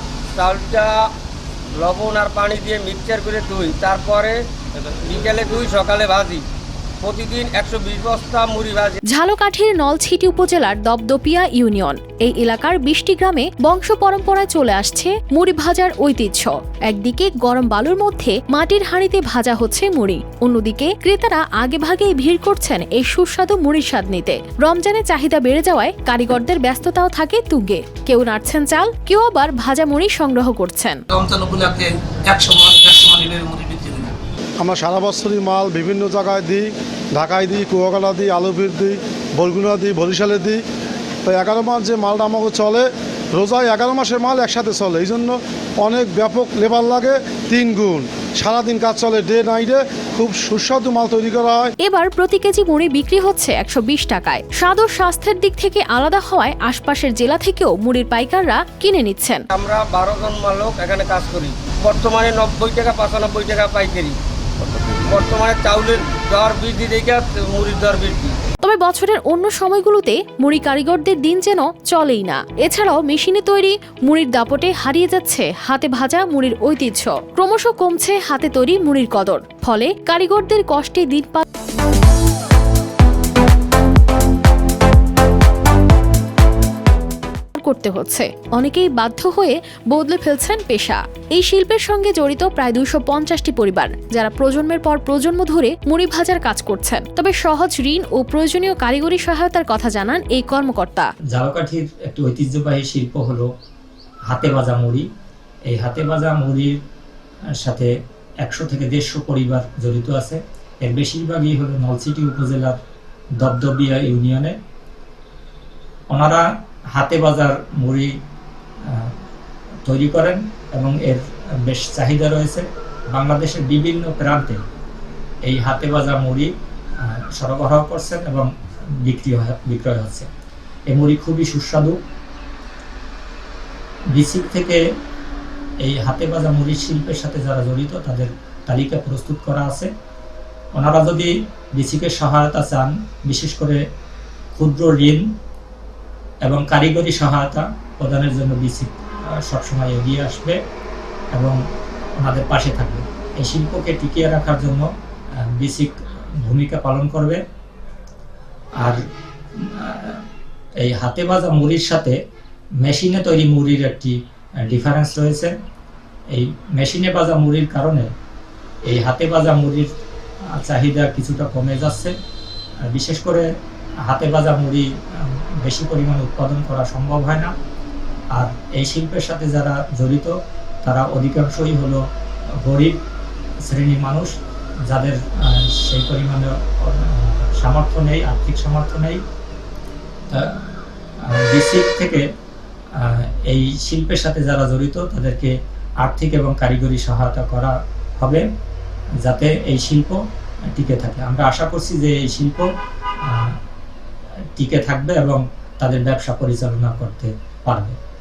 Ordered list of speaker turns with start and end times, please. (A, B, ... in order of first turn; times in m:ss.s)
0:00.4-0:00.9 A
0:01.8-0:04.4 A
0:05.0-0:06.4 A
0:07.0-0:09.0 A
0:09.1-0:31.0 B
0:31.1-0:34.2 C
0:34.6-0:40.6 D
0:41.3-0:51.7 D
0:51.8-0:59.4 B
0:59.5-1:04.2 A
1:05.1-1:08.4 A
1:08.6-1:21.4 B
1:27.5-1:41.1 B
1:41.3-1:43.5 E
1:44.3-1:45.1 E
1:45.7-1:46.8 E
1:47.6-1:47.9 E
1:48.4-1:52.8 E
1:53.4-1:54.6 E
1:56.1-1:58.1 E
1:59.8-2:04.6 E
2:05.4-2:08.5 E
2:09.0-2:10.3 E
2:10.9-2:12.0 E
2:14.1-2:14.8 E
2:15.8-2:19.9 E
2:20.8-2:23.8 E
2:24.6-2:25.2 E
2:26.4-2:30.6 E
2:32.2-2:34.9 E
2:35.4-2:37.4 E
2:39.6-2:40.2 E
2:40.8-2:42.2 E
2:42.8-2:44.2 E
2:44.7-2:45.5 E
2:46.3-2:48.1 E
2:48.9-2:49.9 E
2:50.5-2:52.2 E
2:52.9-2:53.5 E
2:54.0-2:57.5 E
2:58.3-3:02.0 E
3:02.6-3:03.0 E
3:03.6-3:04.3 E
3:04.9-3:09.2 E
3:10.3-3:10.6 E
3:11.2-3:12.2 E
3:13.0-3:18.4 E
3:19.2-3:20.2 E
3:20.7-3:22.7 E
3:23.2-3:23.6 E
3:24.6-3:28.0 E